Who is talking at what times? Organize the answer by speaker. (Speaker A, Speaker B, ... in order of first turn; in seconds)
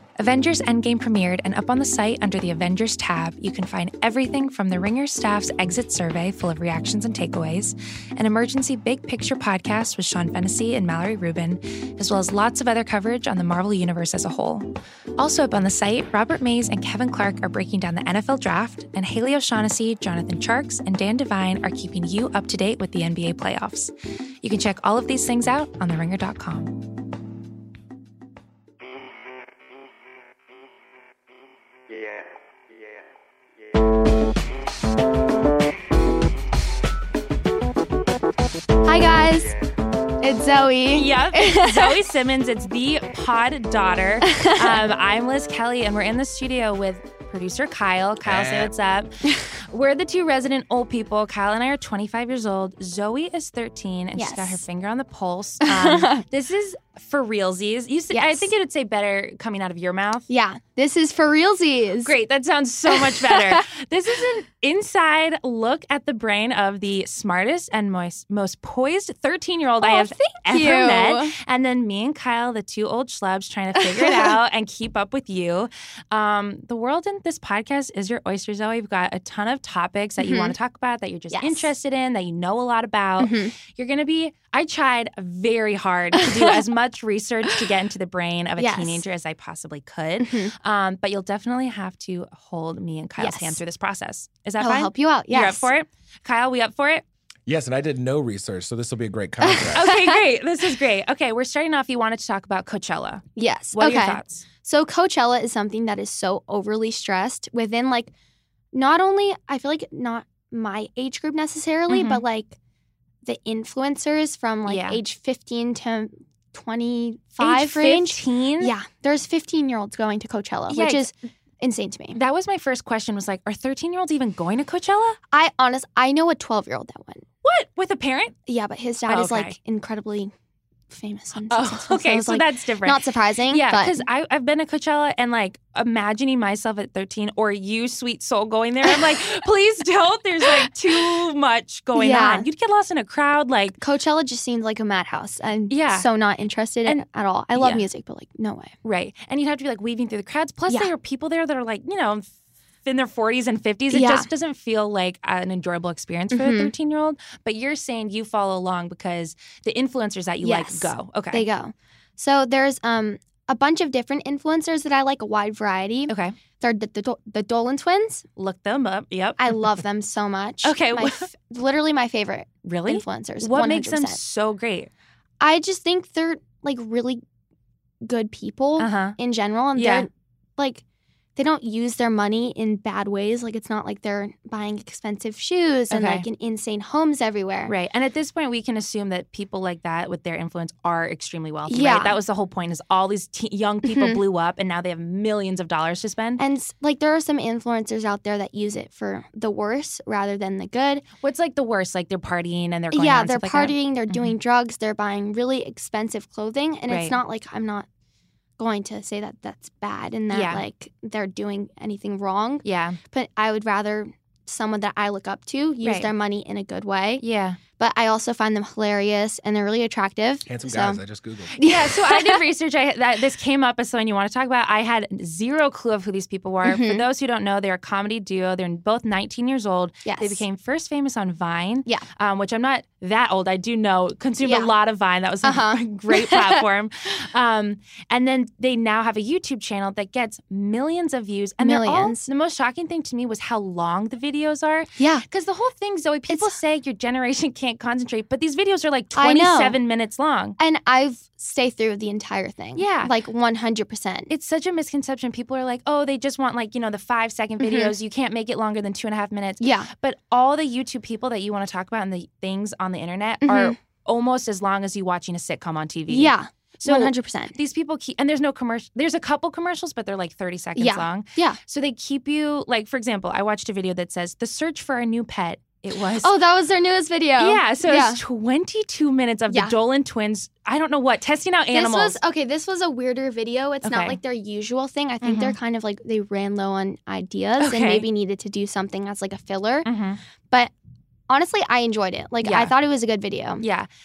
Speaker A: 0.2-26.8, 40.9-60.3, 62.0-97.0, 99.8-104.4, 111.9-112.2, 114.7-115.0, 117.4-118.7, 120.7-121.0, 122.1-125.2, 127.4-128.3, 129.1-129.6, 131.5-143.8, 145.7-146.1, 147.6-147.9, 148.8-152.3, 152.8-161.4, 166.1-166.3, 168.4-169.6, 170.6-171.3, 172.7-174.9, 178.8-179.2, 179.8-180.1, 185.9-186.3, 187.7-196.4, 201.2-204.3, 206.9-207.2, 210.3-210.6, 212.6-213.0, 215.8-216.1, 217.2-217.6, 221.6-250.6, 252.8-253.1, 254.3-276.3, 277.4-282.2, 283.8-284.2, 285.2-285.6, 287.6-288.1, 289.9-290.2, 292.4-292.7, 293.6-293.9
Speaker B: 38.8-39.6, 40.2-42.1, 44.3-44.8, 54.2-54.6, 55.7-56.2, 58.1-58.5, 60.3-62.1, 62.9-63.6, 69.8-71.3, 73.8-74.3, 80.2-80.5, 81.3-81.7, 83.2-83.5, 86.2-86.5, 88.6-89.0, 90.2-90.5, 93.2-93.6, 94.6-95.7, 99.4-100.2, 103.4-108.1, 108.7-112.6, 113.2-122.2, 125.3-127.2, 128.5-130.3, 130.9-134.0, 138.9-139.2, 142.0-142.5, 143.8-148.7, 153.9-154.3, 156.3-156.7, 160.4-168.3, 169.4-174.2, 175.4-177.2, 178.0-180.8, 181.4-187.7, 191.7-192.2, 193.9-194.2, 196.4-201.1, 202.9-207.9, 208.6-217.2, 217.8-221.0, 221.6-222.4, 226.6-227.0, 230.1-230.4, 234.4-234.7, 235.4-236.6, 241.6-242.3, 245.0-245.2, 246.3-246.6, 249.2-249.8, 250.6-254.3, 257.6-257.9, 259.6-259.9, 263.4-263.8, 266.1-267.6, 270.8-271.6, 276.2-278.2, 281.7-289.9, 291.3-293.6
Speaker C: 48.2-48.7, 97.5-99.9, 220.5-221.5